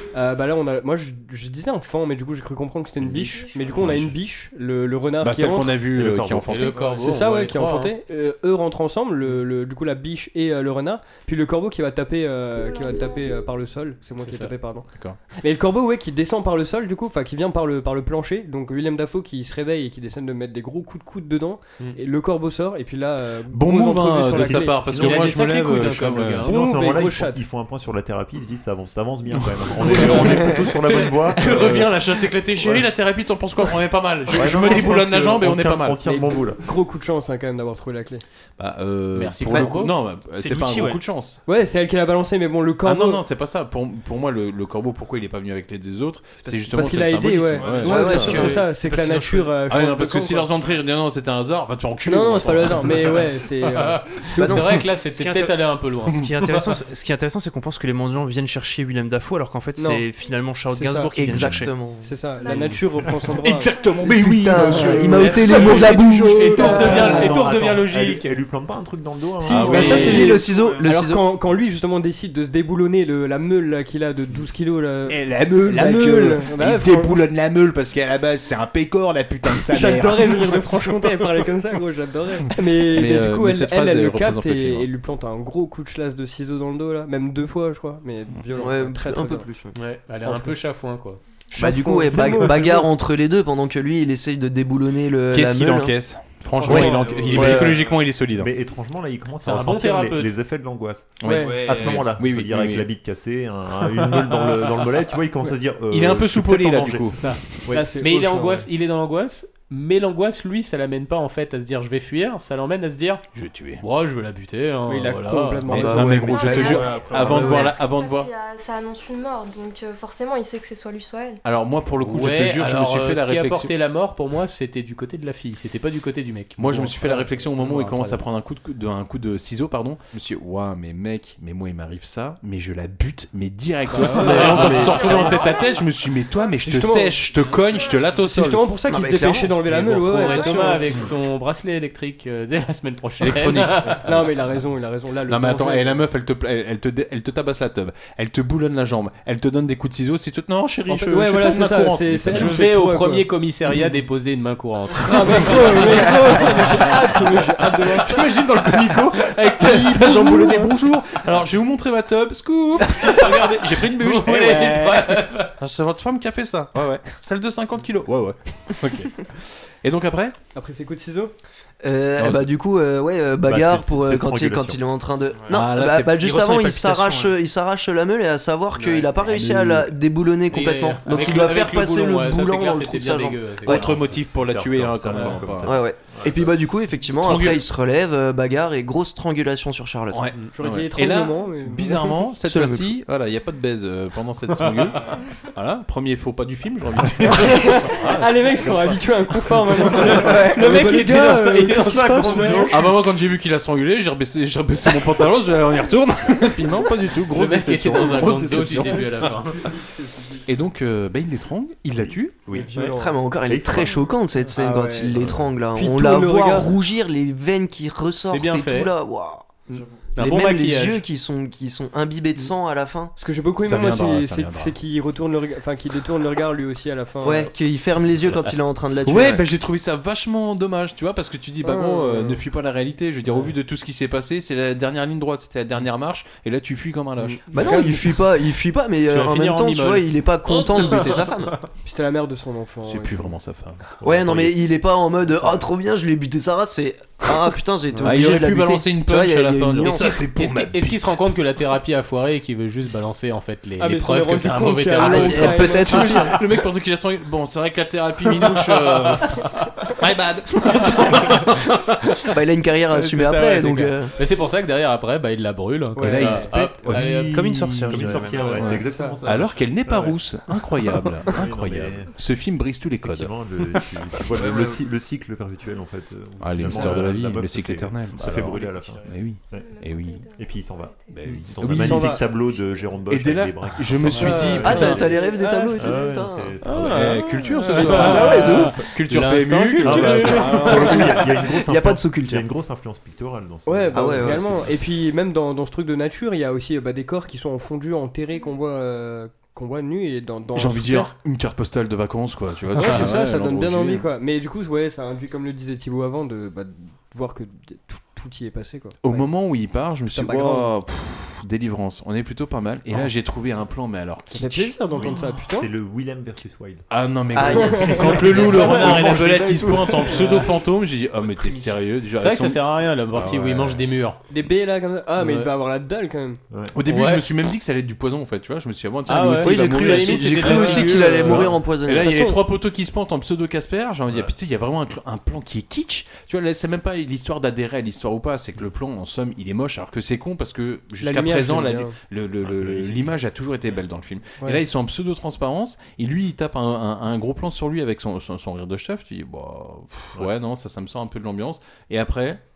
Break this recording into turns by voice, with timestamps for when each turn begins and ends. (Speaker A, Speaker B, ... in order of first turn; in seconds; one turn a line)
Speaker A: 0.1-5.8
Speaker B: 3.0-4.1
Speaker C: 3.1-3.8
Speaker D: 5.2-7.0
Speaker B: 5.9-6.5
Speaker E: 6.5-7.9
Speaker A: 6.8-24.8
Speaker C: 12.6-13.3
Speaker E: 14.2-14.5
Speaker D: 23.5-26.5
Speaker B: 24.3-25.3
Speaker E: 24.9-26.6
Speaker B: 26.4-31.9
Speaker A: 26.4-27.4
Speaker D: 29.4-36.1
Speaker B: 32.6-32.9
Speaker B: 34.3-36.6
Speaker A: 36.0-38.2
Speaker D: 38.6-41.4
Speaker E: 39.1-40.0
Speaker F: 40.3-41.0
Speaker A: 41.5-43.2
Speaker D: 42.8-48.6
Speaker A: 46.7-50.5
Speaker F: 47.5-49.5
Speaker G: 47.8-48.6
Speaker E: 48.2-48.5
Speaker D: 49.7-53.2
Speaker A: 52.0-54.6
Speaker E: 53.7-56.8
Speaker G: 54.4-54.8
Speaker F: 55.0-61.7
Speaker A: 59.8-60.0
Speaker A: 60.7-61.1
Speaker G: 61.1-62.7
Speaker D: 61.3-61.7
Speaker A: 62.0-63.8
Speaker C: 62.4-62.8
Speaker D: 63.3-66.7
Speaker C: 63.5-64.0
Speaker G: 64.0-67.4
Speaker A: 64.7-65.7
Speaker E: 65.2-68.4
Speaker B: 66.4-70.2
Speaker D: 69.4-70.3
Speaker A: 69.5-77.2
Speaker E: 69.7-70.2
Speaker G: 69.7-71.2
Speaker F: 70.4-70.8
Speaker D: 75.1-81.1
Speaker A: 79.7-89.5
Speaker D: 82.8-84.9
Speaker G: 88.6-89.8
Speaker E: 89.7-91.2
Speaker A: 90.2-90.5
Speaker A: 91.5-92.9
Speaker G: 91.5-95.9
Speaker D: 95.3-98.5
Speaker A: 96.6-97.7
Speaker F: 96.6-98.0
Speaker G: 97.3-97.8
Speaker B: 97.4-107.1
Speaker E: 99.4-100.3
Speaker D: 101.2-102.9
Speaker A: 101.2-101.6
Speaker F: 101.4-102.0
Speaker D: 105.9-107.7
Speaker E: 107.2-113.2
Speaker A: 107.7-108.7
Speaker D: 113.3-113.8
Speaker E: 113.8-116.2
Speaker A: 114.9-116.4
Speaker D: 115.7-118.3
Speaker G: 115.7-117.7
Speaker C: 116.2-121.4
Speaker D: 121.4-123.7
Speaker E: 122.0-128.2
Speaker D: 126.6-138.7
Speaker E: 133.9-135.2
Speaker A: 133.9-135.4
Speaker C: 134.7-135.9
Speaker A: 136.6-137.6
Speaker C: 137.7-138.0
Speaker A: 138.1-141.0
Speaker G: 138.9-139.6
Speaker E: 139.7-144.2
Speaker C: 140.3-140.7
Speaker D: 143.2-144.2
Speaker A: 144.0-146.0
Speaker D: 145.3-152.7
Speaker A: 150.9-153.3
Speaker E: 151.4-156.9
Speaker A: 155.0-158.2
Speaker D: 155.4-156.9
Speaker D: 157.6-170.3
Speaker A: 159.6-160.7
Speaker E: 162.9-165.5
Speaker A: 170.6-171.3
Speaker G: 171.8-183.8
Speaker D: 172.2-172.5
Speaker B: 173.4-174.8
Speaker F: 175.3-175.6
Speaker D: 175.5-177.3
Speaker D: 179.2-179.8
Speaker E: 180.5-183.8
Speaker D: 183.7-185.7
Speaker B: 183.7-186.6
Speaker G: 185.6-190.2
Speaker D: 187.1-187.6
Speaker D: 190.1-198.8
Speaker A: 190.5-192.3
Speaker G: 192.4-192.9
Speaker E: 194.6-195.0
Speaker E: 197.3-197.7
Speaker A: 197.4-202.9
Speaker E: 199.9-202.9
Speaker D: 202.2-209.4
Speaker E: 207.2-209.6
Speaker A: 208.8-210.4
Speaker D: 210.4-212.4
Speaker B: 212.0-212.7
Speaker A: 212.5-213.2
Speaker G: 212.7-219.6
Speaker B: 213.4-214.1
Speaker A: 214.5-215.1
Speaker D: 215.2-215.4
Speaker A: 215.7-216.7
Speaker E: 218.2-218.9
Speaker E: 219.8-221.0
Speaker G: 220.2-223.1
Speaker A: 223.2-227.5
Speaker D: 223.6-224.8
Speaker G: 227.2-229.4
Speaker D: 229.0-237.4
Speaker A: 231.6-232.4
Speaker E: 237.2-237.9
Speaker G: 237.5-241.6
Speaker A: 237.5-238.0
Speaker E: 239.1-241.6
Speaker A: 241.8-243.3
Speaker D: 242.9-244.5
Speaker G: 244.0-250.2
Speaker D: 248.0-251.3
Speaker E: 249.8-256.0
Speaker A: 253.8-256.4
Speaker G: 255.0-256.4
Speaker D: 255.9-262.0
Speaker E: 259.1-259.4
Speaker G: 262.2-264.1
Speaker E: 262.9-267.5
Speaker A: 265.9-266.5
Speaker D: 266.0-273.3
Speaker B: 266.9-267.1
Speaker F: 267.3-268.8
Speaker B: 267.9-270.2
Speaker A: 268.8-269.2
Speaker B: 271.3-272.1
Speaker B: 273.0-279.7
Speaker F: 274.4-274.8
Speaker D: 276.4-280.2
Speaker F: 278.4-279.1
Speaker C: 279.5-281.2
Speaker B: 280.3-285.1
Speaker D: 281.6-282.2
Speaker A: 281.6-282.2
Speaker D: 283.1-285.1
Speaker E: 284.1-284.7
Speaker A: 284.1-286.0
Speaker G: 284.6-286.6
Speaker B: 285.8-287.2
Speaker E: 286.6-291.0
Speaker D: 286.7-291.1
Speaker A: 287.6-288.2
Speaker G: 287.9-288.8
Speaker B: 289.8-294.7
Speaker A: 289.9-291.1
Speaker G: 290.9-292.5
Speaker A: 293.6-301.1
Speaker G: 293.9-294.5
Speaker D: 300.6-304.0
Speaker A: 302.7-309.2
Speaker D: 309.0-314.7
Speaker A: 310.1-310.7
Speaker A: 314.3-315.7
Speaker B: 314.9-316.8
Speaker D: 316.9-323.9
Speaker G: 317.3-318.5
Speaker A: 317.5-319.1
Speaker B: 317.7-320.2
Speaker E: 320.1-320.5
Speaker F: 321.2-321.8
Speaker E: 322.2-324.2
Speaker A: 324.3-326.4
Speaker E: 325.1-325.5
Speaker D: 326.7-352.4
Speaker E: 326.8-327.3
Speaker E: 329.1-331.6
Speaker G: 329.4-332.2
Speaker A: 332.0-332.4
Speaker A: 341.0-341.9
Speaker B: 342.4-343.2